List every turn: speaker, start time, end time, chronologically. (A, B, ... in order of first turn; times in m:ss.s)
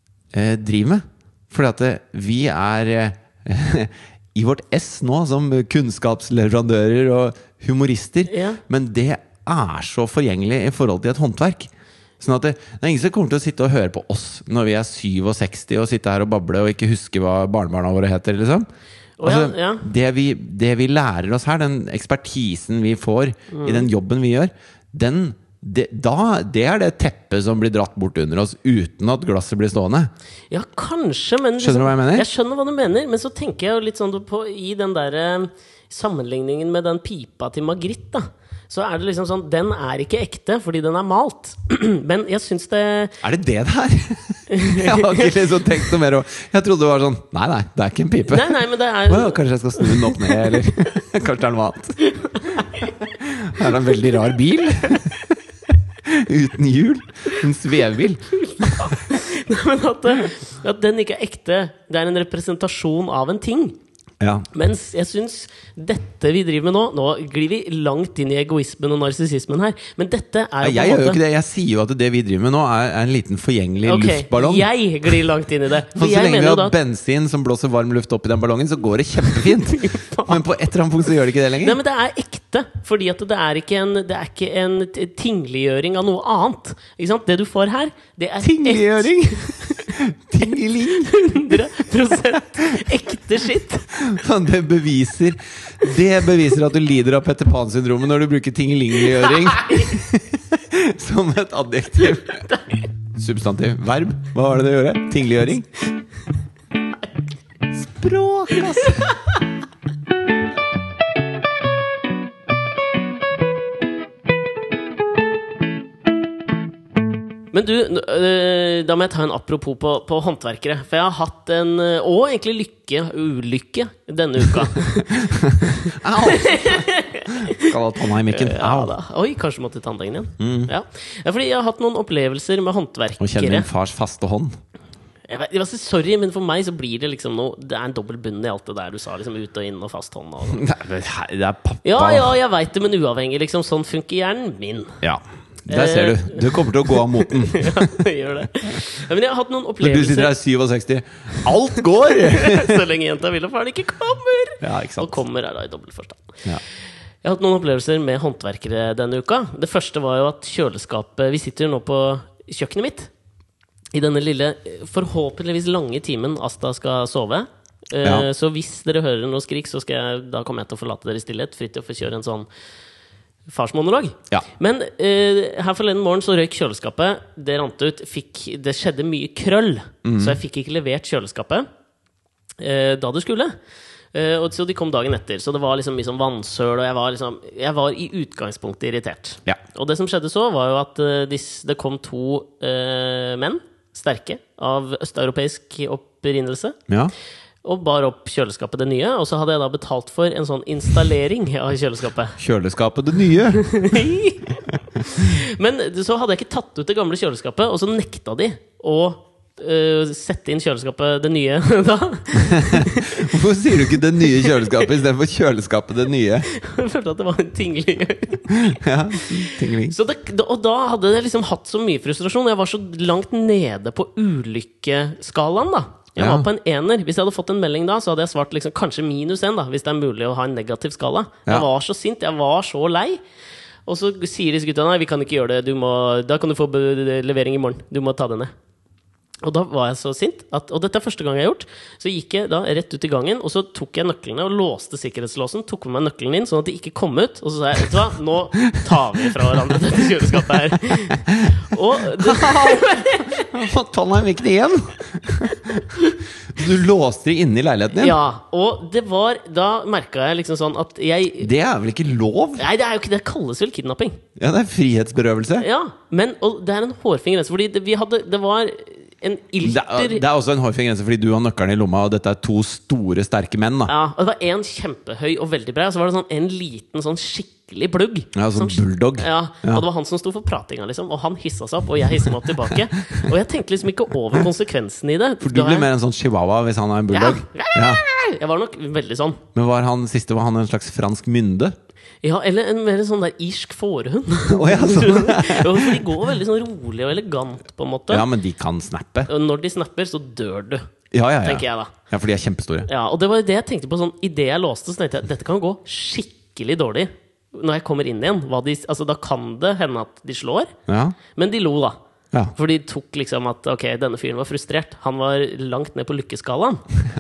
0:00.3-0:18.7 A
0:08.3-0:08.6 B
0:19.2-0:19.8 B
0:19.2-0:30.1 A
0:23.5-0:23.9 B
0:30.5-0:43.2 B
0:31.6-0:32.3 A
0:43.2-0:55.4 A
0:44.5-0:45.3 B
0:48.3-0:50.6 B
0:52.0-0:52.9 B
0:56.0-0:59.0 A
0:58.4-1:03.8 B
1:04.2-1:04.5 A
1:04.5-1:11.2 B
1:10.6-1:14.7 A
1:13.8-1:16.8 B
1:15.9-1:21.8 A
1:19.2-1:20.4 B
1:21.6-1:30.0 B
1:28.4-1:31.6 A
1:31.0-1:34.0 B
1:33.9-1:42.5 A
1:39.2-1:40.0 B
1:42.4-1:42.8 B
1:43.2-1:45.7 A
1:47.7-1:49.2 A
1:48.5-1:49.2 B
1:57.5-2:13.7 B
2:05.1-2:09.0 A
2:10.4-2:10.7 A
2:13.2-2:14.5 A
2:15.3-2:20.6 B
2:20.5-2:22.3 A
2:21.8-2:25.0 B
2:25.0-2:28.0 A
2:25.7-2:30.3 B
2:29.8-2:32.8 A
2:32.0-2:36.4 B
2:34.6-2:35.2 A
2:37.2-2:43.1 B
2:43.9-2:52.5 B
2:48.0-2:48.3 A
2:53.5-3:01.7 B
3:00.0-3:00.4 A
3:02.6-3:03.5 B
3:04.1-3:16.8 B
3:17.6-3:22.4 B
3:22.4-3:24.1 A
3:23.6-3:34.7 B
3:32.5-3:36.5 A
3:36.5-3:53.2 B
3:38.5-3:40.0 A
3:46.2-3:46.5 A
3:53.9-3:58.5 B
3:59.4-4:13.5 B
4:11.2-4:11.6 A
4:12.1-4:18.2 A
4:15.5-4:16.2 B
4:18.0-4:21.5 B
4:21.4-4:22.6 A
4:22.6-4:24.2 B
4:24.4-4:25.7 A
4:25.6-4:30.2 B
4:29.6-4:33.9 A
4:33.9-4:45.9 B
4:38.4-4:39.8 A
4:45.4-4:48.0 A
4:47.1-4:49.4 B
4:49.6-4:51.7 A
4:52.2-4:58.3 B
4:54.5-4:56.2 A
4:58.1-4:59.3 A
4:59.3-5:00.8 B
5:01.1-5:02.9 A
5:01.4-5:01.9 B
5:02.9-5:10.7 B
5:10.9-5:11.2 A
5:11.3-5:12.0 B
5:12.6-5:16.8 B